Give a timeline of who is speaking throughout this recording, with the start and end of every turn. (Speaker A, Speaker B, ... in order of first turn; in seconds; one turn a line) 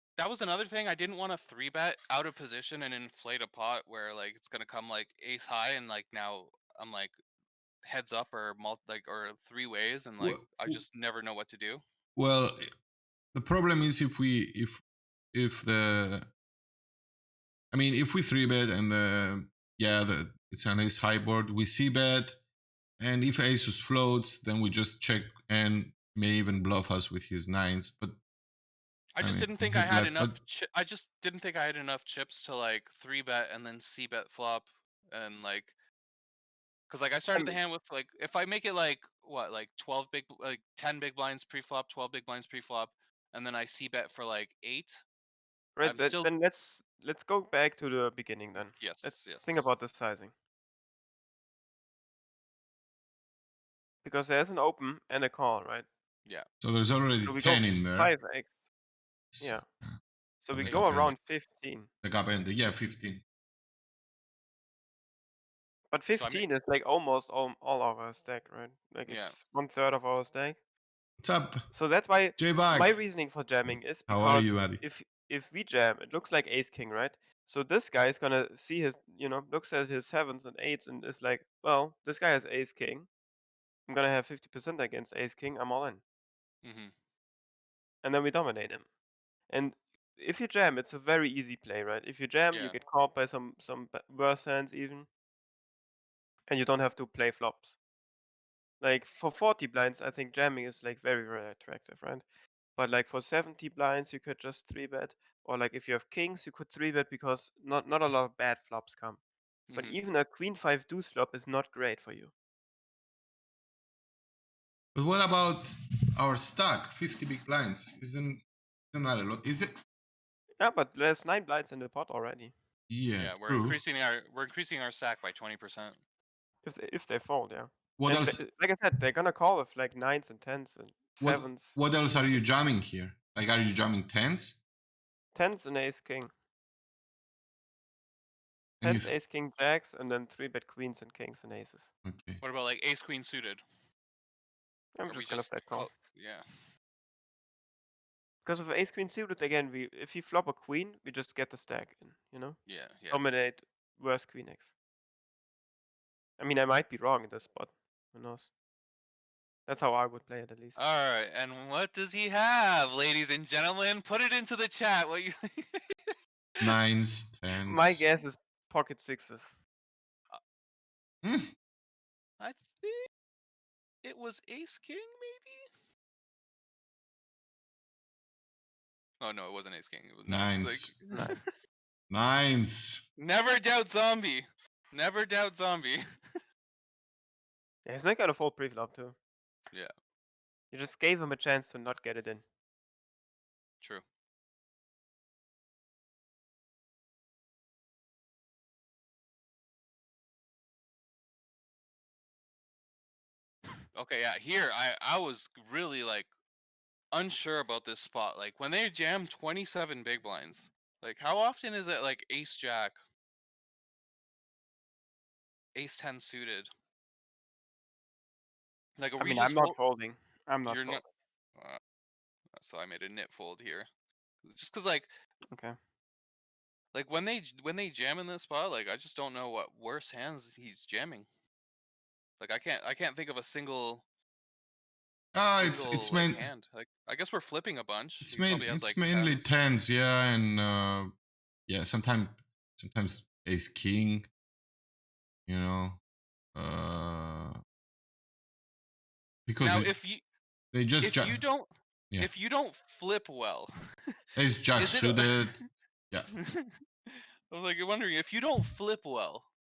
Speaker A: 0.2-7.1
Speaker A: 7.8-11.8
Speaker B: 10.2-10.8
Speaker B: 12.2-12.7
Speaker B: 13.3-14.8
Speaker B: 15.3-16.3
Speaker B: 17.7-22.4
Speaker B: 23.0-28.2
Speaker A: 29.1-35.7
Speaker B: 29.2-30.4
Speaker A: 36.9-45.0
Speaker C: 37.3-37.6
Speaker C: 45.8-50.3
Speaker A: 45.8-46.3
Speaker A: 48.8-49.7
Speaker C: 54.0-55.9
Speaker B: 56.6-58.1
Speaker C: 57.2-58.5
Speaker B: 59.3-60.0
Speaker C: 59.4-59.6
Speaker C: 60.4-61.9
Speaker B: 60.5-61.2
Speaker A: 60.7-60.9
Speaker B: 62.0-63.2
Speaker C: 65.9-70.6
Speaker A: 66.2-66.5
Speaker A: 69.1-69.4
Speaker B: 71.2-71.7
Speaker C: 71.7-83.1
Speaker B: 72.4-73.0
Speaker B: 73.7-74.8
Speaker C: 83.9-86.0
Speaker A: 86.6-86.9
Speaker C: 88.0-88.8
Speaker C: 89.5-95.1
Speaker A: 92.5-92.8
Speaker C: 96.5-97.8
Speaker C: 98.8-102.2
Speaker C: 102.8-109.2
Speaker A: 109.7-110.0
Speaker C: 109.8-112.3
Speaker B: 115.0-119.7
Speaker C: 120.6-122.5
Speaker B: 122.9-123.8
Speaker A: 123.2-126.0
Speaker C: 126.6-131.8
Speaker B: 128.0-128.4
Speaker B: 131.2-134.6
Speaker C: 135.3-136.3
Speaker B: 138.8-139.1
Speaker C: 138.8-141.9
Speaker B: 142.1-142.4
Speaker A: 142.4-143.6
Speaker C: 144.9-145.9
Speaker A: 145.1-146.5
Speaker C: 148.4-154.7
Speaker A: 152.7-153.2
Speaker C: 156.4-158.5
Speaker C: 159.7-160.8
Speaker A: 160.8-166.2
Speaker B: 166.6-168.0
Speaker C: 167.7-169.5
Speaker B: 171.2-171.5
Speaker A: 172.4-173.1
Speaker A: 174.0-175.6
Speaker A: 179.2-181.3
Speaker B: 180.3-180.9
Speaker C: 181.1-181.4
Speaker B: 182.1-183.1
Speaker A: 183.2-186.0
Speaker C: 187.8-189.2
Speaker C: 190.7-192.4
Speaker A: 203.9-206.3
Speaker A: 207.1-213.0
Speaker A: 215.8-216.7
Speaker A: 219.0-219.8
Speaker C: 219.2-221.0
Speaker A: 220.7-221.0
Speaker A: 222.6-223.9
Speaker A: 224.4-225.1
Speaker C: 225.5-225.8
Speaker A: 226.9-231.3
Speaker A: 232.4-234.0
Speaker B: 235.3-236.5
Speaker A: 235.5-239.5
Speaker B: 238.2-241.1
Speaker B: 241.7-244.3
Speaker B: 245.5-246.0
Speaker B: 246.6-247.6
Speaker B: 249.5-249.9
Speaker A: 249.6-250.2
Speaker B: 250.7-251.4
Speaker A: 251.0-253.7
Speaker B: 254.4-255.5
Speaker A: 254.8-255.6
Speaker A: 256.4-259.5